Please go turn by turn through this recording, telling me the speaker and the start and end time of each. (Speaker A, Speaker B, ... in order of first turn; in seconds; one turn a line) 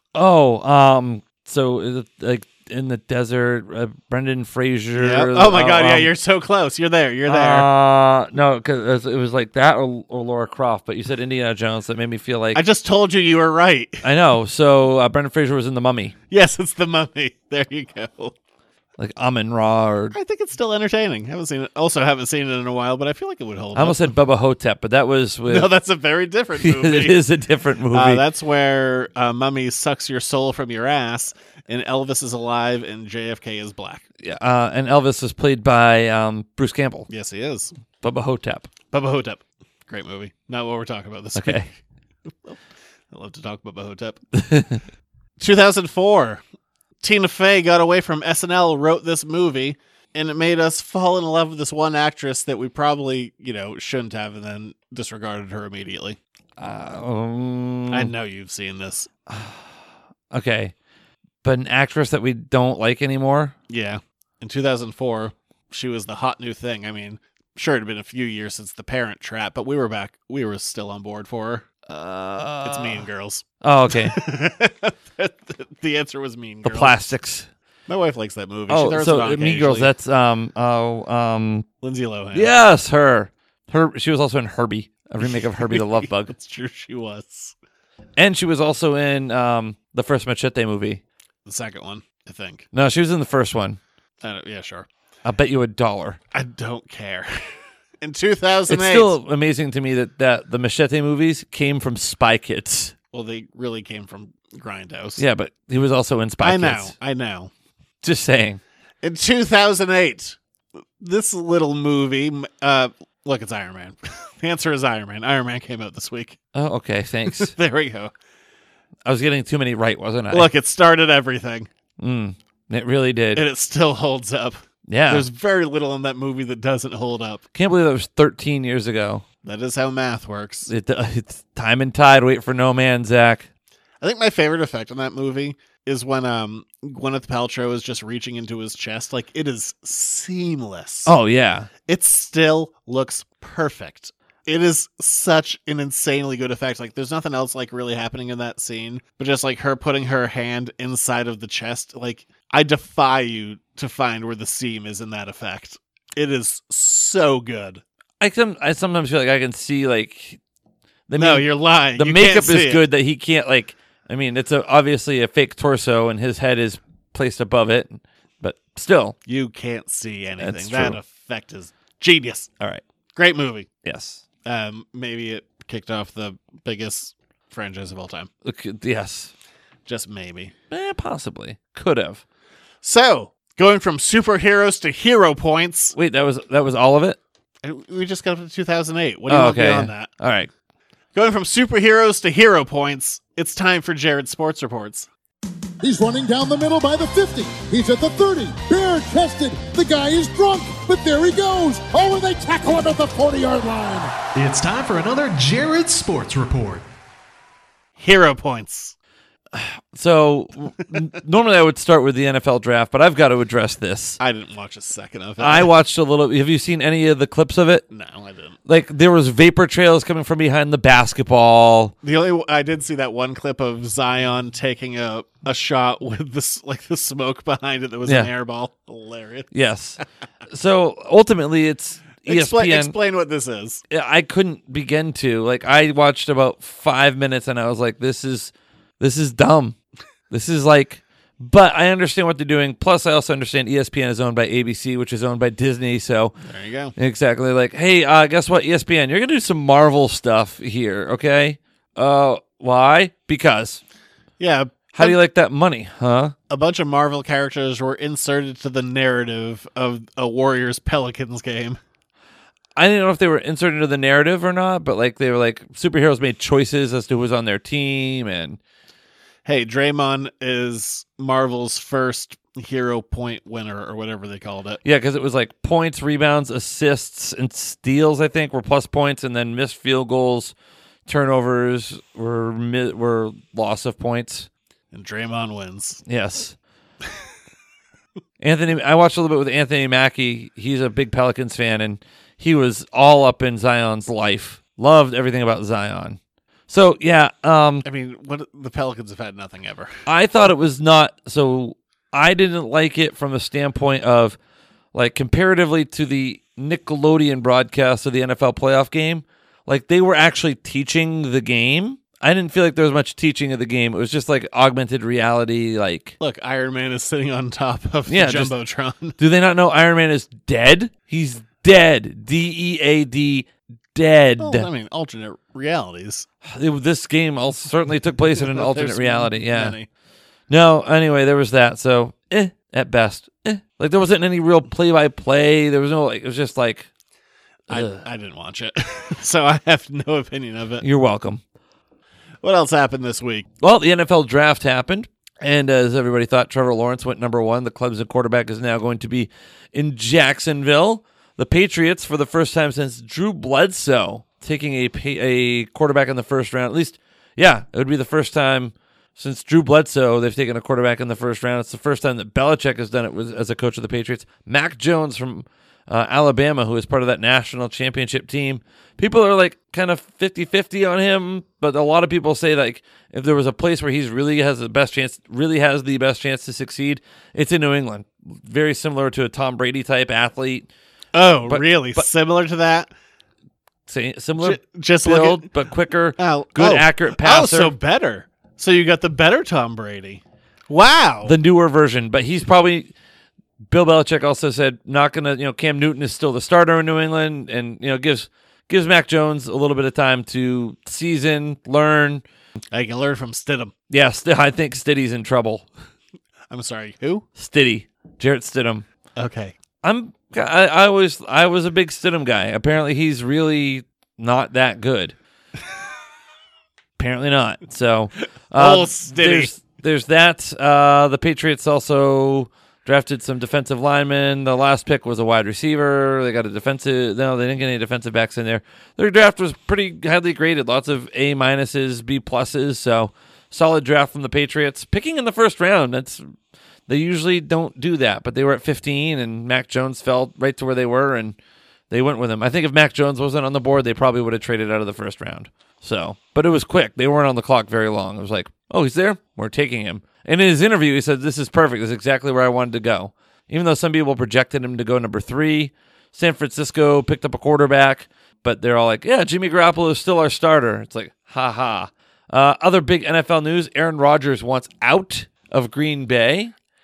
Speaker A: 0.1-6.1
Speaker B: 5.0-7.7
Speaker A: 7.2-12.6
Speaker B: 12.5-14.0
Speaker A: 14.0-16.1
Speaker B: 16.3-18.3
Speaker A: 19.0-20.1
Speaker B: 20.1-24.1
Speaker A: 23.7-25.7
Speaker B: 25.5-27.2
Speaker A: 26.6-28.2
Speaker B: 27.9-34.0
Speaker A: 34.2-37.1
Speaker B: 37.1-37.7
Speaker A: 38.0-38.7
Speaker B: 38.9-41.7
Speaker A: 41.3-41.7
Speaker B: 43.1-44.2
Speaker A: 44.3-44.8
Speaker B: 45.4-46.4
Speaker B: 47.0-56.2
Speaker A: 56.6-58.1
Speaker B: 57.9-59.1
Speaker A: 59.3-59.7
Speaker A: 60.3-60.7
Speaker A: 61.4-63.5
Speaker B: 63.7-71.7
Speaker A: 71.8-73.0
Speaker B: 72.6-77.1
Speaker A: 73.6-74.2
Speaker A: 76.6-77.5
Speaker B: 77.9-79.9
Speaker A: 78.7-81.7
Speaker B: 81.8-82.5
Speaker A: 82.3-86.3
Speaker B: 85.3-87.5
Speaker A: 88.2-91.0
Speaker B: 91.5-92.7
Speaker A: 92.7-93.8
Speaker B: 94.2-94.9
Speaker A: 95.2-96.2
Speaker B: 96.3-97.3
Speaker B: 98.0-99.1
Speaker A: 98.7-102.9
Speaker B: 103.1-105.2
Speaker A: 105.2-106.9
Speaker B: 106.4-107.5
Speaker A: 108.0-108.6
Speaker B: 109.0-110.4
Speaker B: 111.0-116.4
Speaker A: 116.5-117.5
Speaker B: 117.3-118.1
Speaker A: 119.0-120.5
Speaker B: 120.3-121.7
Speaker A: 122.0-123.4
Speaker B: 123.3-127.4
Speaker A: 124.9-125.2
Speaker A: 127.5-129.2
Speaker B: 129.4-130.7
Speaker A: 130.7-133.5
Speaker B: 134.0-141.1
Speaker A: 141.1-141.7
Speaker B: 141.8-157.8
Speaker A: 158.2-160.4
Speaker A: 161.1-169.2
Speaker B: 161.2-162.8
Speaker B: 169.2-172.5
Speaker A: 170.4-171.0
Speaker B: 173.2-173.7
Speaker A: 173.8-174.2
Speaker B: 174.4-178.3
Speaker A: 178.4-179.3
Speaker B: 179.8-180.5
Speaker A: 180.7-182.2
Speaker B: 182.8-185.9
Speaker A: 185.9-187.2
Speaker B: 187.6-190.1
Speaker A: 189.3-190.5
Speaker B: 191.1-195.1
Speaker C: 195.8-204.1
Speaker D: 204.3-206.8
Speaker B: 208.0-208.9
Speaker A: 209.5-214.2
Speaker B: 214.2-215.7
Speaker A: 215.4-217.8
Speaker B: 217.9-218.6
Speaker A: 218.7-221.9
Speaker B: 222.0-229.5
Speaker A: 228.0-228.3
Speaker A: 229.5-232.9
Speaker B: 232.2-233.8
Speaker A: 233.9-239.8
Speaker A: 240.3-246.3
Speaker B: 246.4-246.9
Speaker A: 246.9-253.8
Speaker B: 254.4-255.2
Speaker A: 254.9-256.3
Speaker B: 256.5-261.8
Speaker A: 262.8-268.6
Speaker B: 269.4-274.8
Speaker A: 274.8-280.5
Speaker A: 281.1-284.5
Speaker B: 284.9-286.0
Speaker A: 286.1-286.6
Speaker A: 288.4-297.8
Speaker B: 297.8-299.9
Speaker A: 300.1-304.4
Speaker A: 304.9-316.1
Speaker B: 316.2-319.2
Speaker A: 318.1-318.5
Speaker A: 319.2-324.7
Speaker B: 324.4-326.3
Speaker A: 326.4-329.8
Speaker B: 328.4-329.9
Speaker A: 330.5-336.9
Speaker B: 337.7-340.8
Speaker A: 337.7-338.0
Speaker A: 340.8-341.4
Speaker B: 342.4-343.5
Speaker A: 343.6-380.7
Speaker B: 381.1-382.9
Speaker A: 381.4-382.1
Speaker A: 383.9-387.7
Speaker B: 384.4-385.5
Speaker B: 386.2-391.4
Speaker A: 391.2-392.9
Speaker A: 393.7-402.2
Speaker B: 402.7-403.7
Speaker A: 403.9-405.7
Speaker B: 406.5-407.2
Speaker A: 407.4-408.9
Speaker B: 409.2-409.5
Speaker A: 409.8-415.1
Speaker A: 417.0-436.2
Speaker B: 418.5-419.5
Speaker A: 436.9-441.4
Speaker A: 441.9-466.5